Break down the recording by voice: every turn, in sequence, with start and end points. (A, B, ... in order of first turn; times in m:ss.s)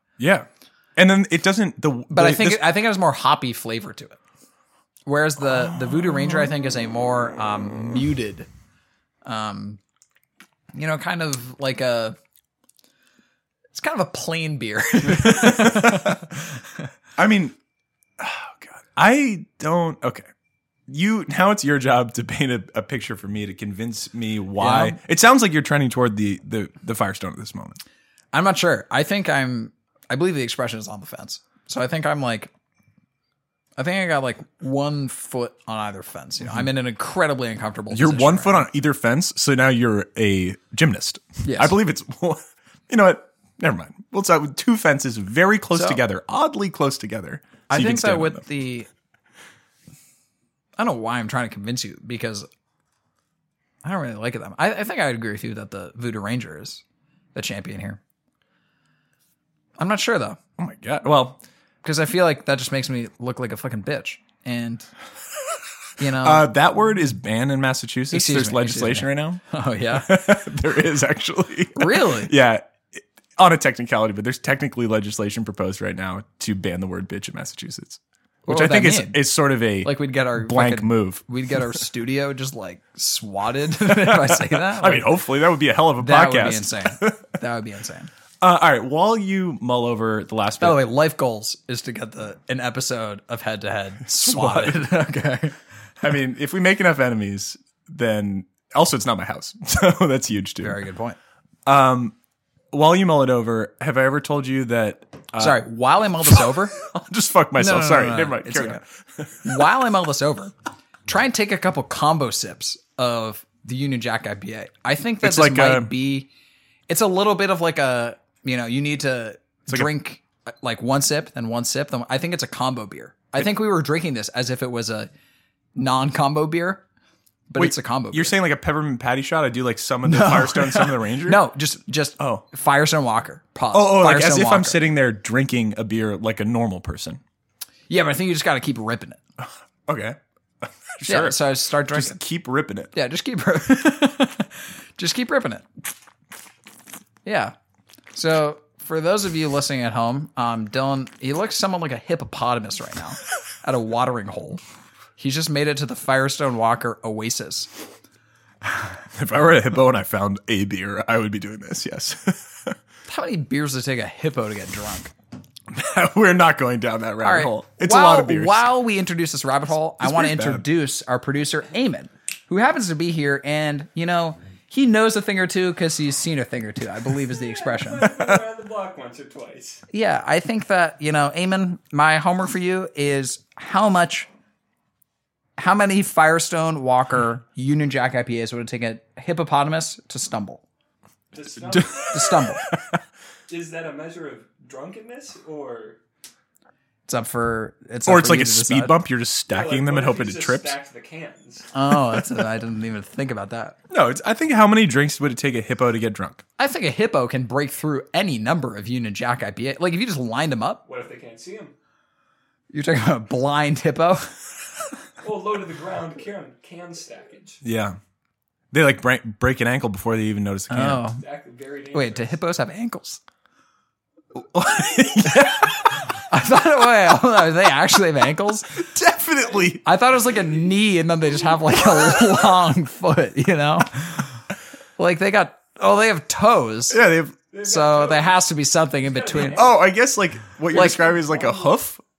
0:00.2-0:02.6 A
0:02.1-0:04.2 B
0:05.1-0:08.5 B
0:09.2-0:09.8 B
0:10.7-0:12.2 B
0:13.7-0:16.8 B
0:15.1-0:16.2 A
0:17.2-0:17.6 A
0:18.2-0:20.3 A
0:20.9-0:27.8 A
0:24.6-0:25.0 B
0:28.3-0:32.5 B
0:33.8-0:38.7 B
0:37.9-0:48.4 A
0:41.4-0:41.8 B
0:45.7-0:46.0 B
0:47.7-0:48.9 B
0:50.8-0:52.5 B
0:53.8-0:56.8 B
0:57.4-0:58.0 B
0:59.8-1:00.4 B
1:00.6-1:01.4 A
1:01.8-1:04.9 B
1:06.0-1:06.5 B
1:06.2-1:21.2 A
1:08.1-1:10.2 B
1:11.8-1:12.3 B
1:18.5-1:19.2 B
1:19.8-1:25.1 B
1:23.9-1:27.2 A
1:26.0-1:28.1 B
1:28.4-1:30.8 A
1:30.6-1:35.6 B
1:34.1-1:34.9 A
1:36.0-1:40.8 A
1:40.6-1:41.2 B
1:41.7-1:42.1 A
1:42.7-1:45.6 A
1:45.4-1:46.8 B
1:46.2-1:49.5 A
1:47.6-1:48.8 B
1:49.4-1:50.5 B
1:51.1-1:56.3 B
1:55.2-1:55.9 A
1:56.9-2:05.1 B
2:05.8-2:06.8 B
2:07.5-2:08.4 B
2:07.6-2:11.4 A
2:10.0-2:14.8 B
2:12.2-2:12.4 A
2:13.7-2:17.2 A
2:17.9-2:19.2 B
2:19.4-2:22.9 A
2:21.1-2:22.2 B
2:22.9-2:25.7 B
2:27.2-2:27.6 B
2:28.1-2:34.6 B
2:35.2-2:37.7 B
2:39.1-2:42.7 A
2:43.1-2:45.1 B
2:45.7-2:48.7 A
2:47.2-2:58.1 B
2:50.0-2:50.6 A
2:57.7-2:59.8 C
2:59.9-3:04.3 B
3:05.6-3:10.6 B
3:11.3-3:12.3 C
3:11.7-3:13.0 A
3:12.0-3:12.6 B
3:13.5-3:16.0 C
3:17.1-3:19.0 B
3:18.1-3:20.8 A
3:19.5-3:21.7 C
3:21.7-3:23.8 B
3:23.9-3:26.4 A
3:26.6-3:30.8 B
3:30.9-3:31.7 C
3:32.7-3:34.3 B
3:35.2-3:37.6 C
3:37.6-3:38.0 A
3:38.7-3:41.1 A
3:40.7-3:41.2 B
3:41.2-3:42.4 C
3:41.9-3:43.2 B
3:44.4-3:45.7 A
3:45.2-3:48.8 B
3:48.8-3:49.8 A
3:49.8-3:54.4 B
3:55.0-3:57.0 B
3:56.9-3:57.4 A
3:57.5-3:58.4 C
3:57.6-3:59.7 B
3:59.1-3:59.8 C
3:59.4-4:02.0 A
4:00.7-4:01.1 B